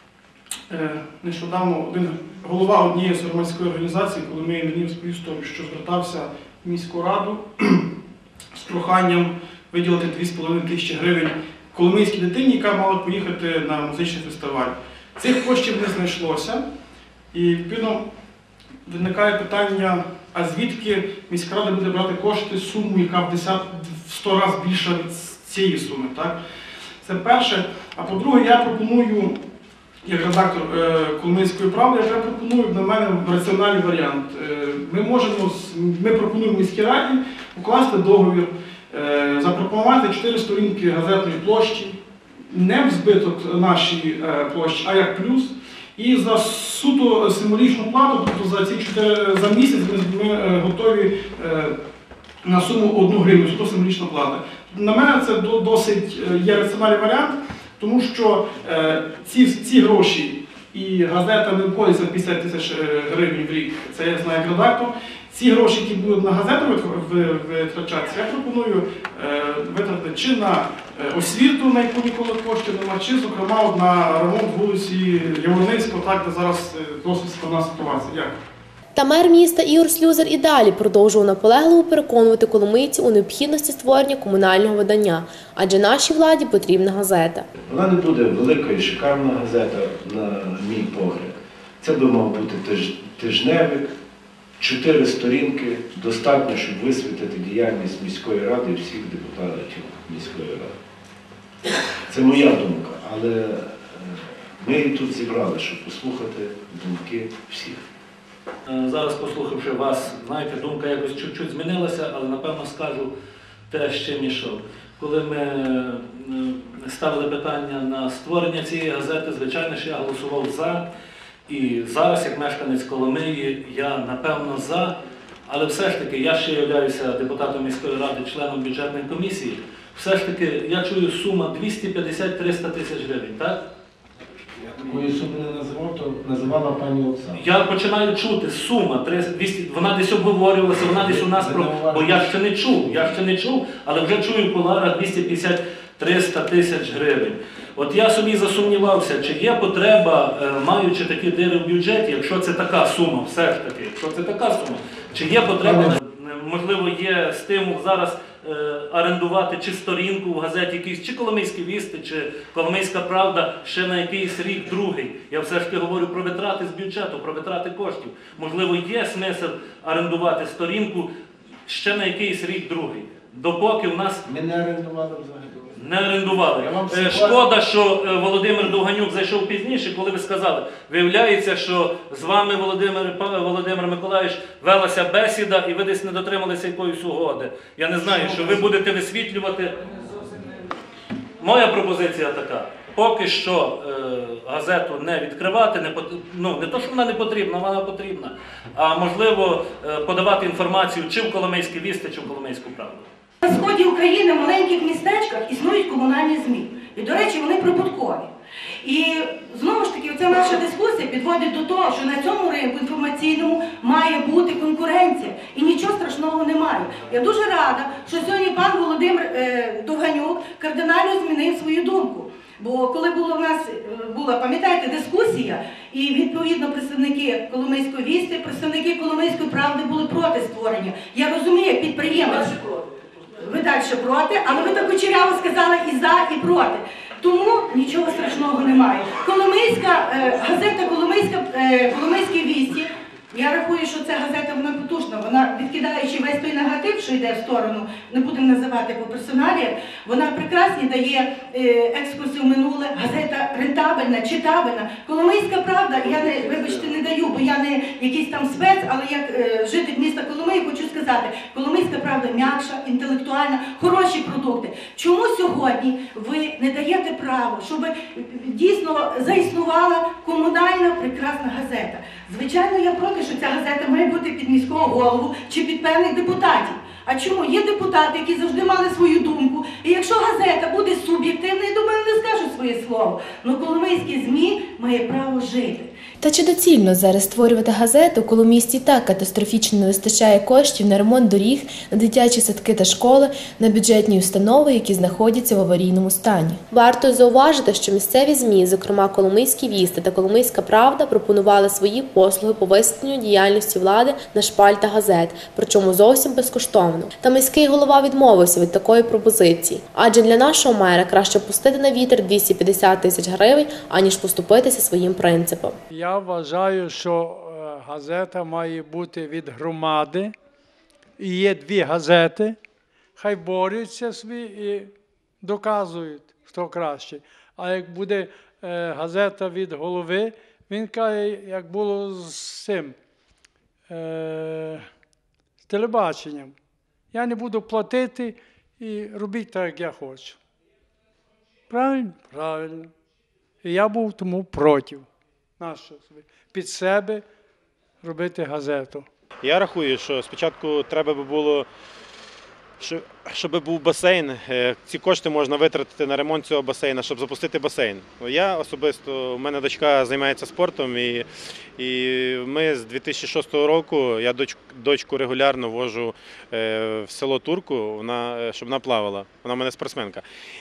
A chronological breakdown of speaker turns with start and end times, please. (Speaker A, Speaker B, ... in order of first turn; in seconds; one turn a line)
Speaker A: 0.7-7.8
Speaker A: 8.5-16.6
Speaker A: 17.3-18.0
Speaker A: 18.9-26.3
Speaker A: 27.0-29.3
Speaker A: 30.0-41.9
Speaker A: 42.5-51.7
Speaker A: 52.4-78.3
Speaker B: 78.9-87.5
Speaker C: 87.7-93.9
Speaker C: 94.6-100.7
Speaker C: 102.1-107.8
Speaker D: 108.7-113.1
Speaker D: 113.7-120.8
Speaker D: 121.5-124.9
Speaker D: 125.5-133.6
Speaker C: 134.6-137.5
Speaker D: 137.3-171.1
Speaker C: 140.9-143.2
Speaker C: 155.6-155.9
Speaker D: 171.7-174.2
Speaker C: 174.2-175.7
Speaker D: 175.8-189.7
Speaker C: 176.6-177.4
Speaker D: 191.4-203.1
Speaker E: 203.4-208.3
Speaker E: 208.8-232.6
Speaker E: 233.4-285.9
Speaker B: 286.2-315.8
Speaker F: 315.9-320.3
Speaker F: 321.2-322.6
Speaker F: 323.2-333.0
Speaker F: 333.9-334.8
Speaker F: 335.6-336.5
Speaker F: 337.1-340.4
Speaker F: 341.7-342.9
Speaker F: 343.6-345.1
Speaker F: 345.6-347.2
Speaker F: 348.0-349.1
Speaker G: 349.4-351.6
Speaker G: 352.8-361.2
Speaker G: 361.8-370.2